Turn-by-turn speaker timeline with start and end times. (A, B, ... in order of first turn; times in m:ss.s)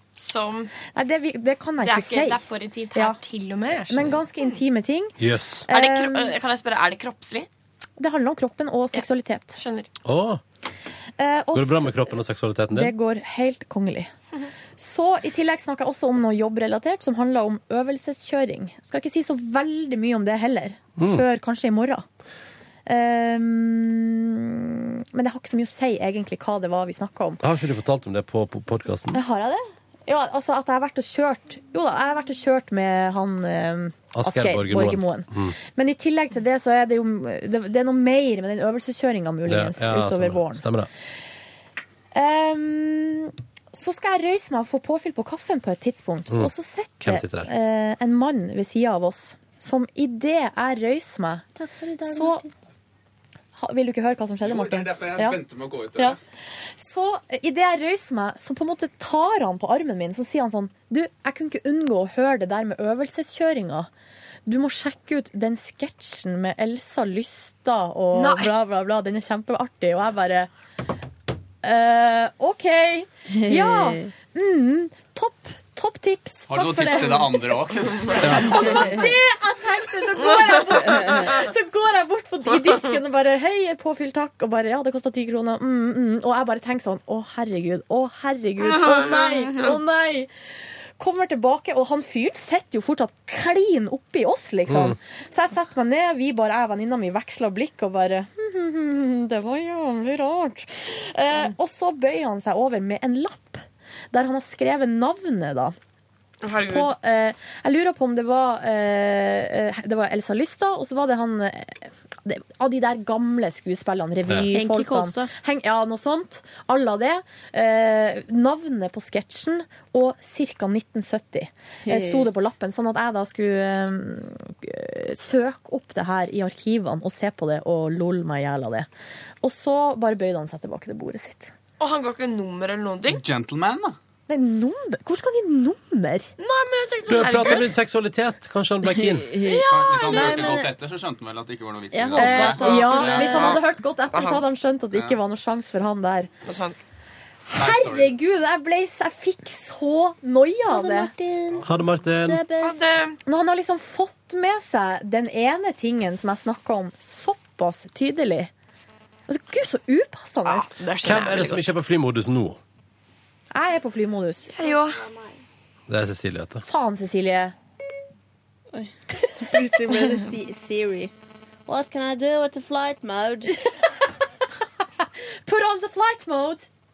0:00.2-0:00.7 A
0:00.9-0:02.4 B
0:01.8-0:04.5 A
0:03.9-0:05.2 B
0:05.2-0:05.7 C
0:05.7-0:06.3 B
0:05.7-0:07.5 A
0:08.0-0:09.6 B
0:09.6-0:09.9 A
0:10.0-0:10.4 C
0:11.2-0:12.0 B
0:11.5-0:12.9 C
0:12.7-0:14.1 B
0:14.8-0:22.0 B
0:21.0-0:21.2 C
0:22.9-0:27.4 B
0:27.4-0:29.2 C
0:29.1-0:40.6 B
0:34.1-0:35.5 C
0:39.5-0:40.9 C
0:42.1-0:51.4 B
0:47.0-0:47.5 C
0:51.6-0:52.5 D
0:52.0-0:52.4 B
0:53.6-0:55.4 B
0:54.4-0:56.2 E
0:56.8-1:03.9 B
1:04.4-1:10.5 B
1:08.1-1:08.5 A
1:11.6-1:17.5 B
1:13.3-1:14.1 D
1:16.5-1:18.8 E
1:18.1-1:30.3 B
1:20.4-1:21.2 A
1:21.0-1:21.2 D
1:28.8-1:29.7 A
1:31.0-1:45.7 B
1:34.7-1:34.9 C
1:46.4-1:46.9 A
1:46.7-2:08.9 B
1:54.5-1:55.3 D
2:01.8-2:02.3 D
2:09.4-2:11.5 B
2:11.8-2:13.2 A
2:13.1-2:14.0 E
2:14.3-2:16.3 B
2:16.4-2:17.7 A
2:17.1-2:19.3 C
2:18.8-2:20.7 D
2:19.4-2:20.5 A
2:19.6-2:23.6 E
2:21.9-2:23.6 D
2:22.2-2:26.3 B
2:24.1-2:24.4 A
2:26.4-2:26.8 A
2:27.5-2:31.1 B
2:27.5-2:28.2 E
2:30.7-2:32.8 D
2:31.6-2:32.4 C
2:32.6-2:33.2 A
2:33.2-2:38.5 B
2:39.3-2:40.7 B
2:40.4-2:41.7 A
2:41.0-2:42.6 C
2:43.5-2:44.5 B
2:44.5-2:45.0 A
2:45.9-2:46.6 C
2:46.6-2:47.5 B
2:48.7-2:51.1 D
2:51.6-2:53.7 D
2:55.4-2:56.7 B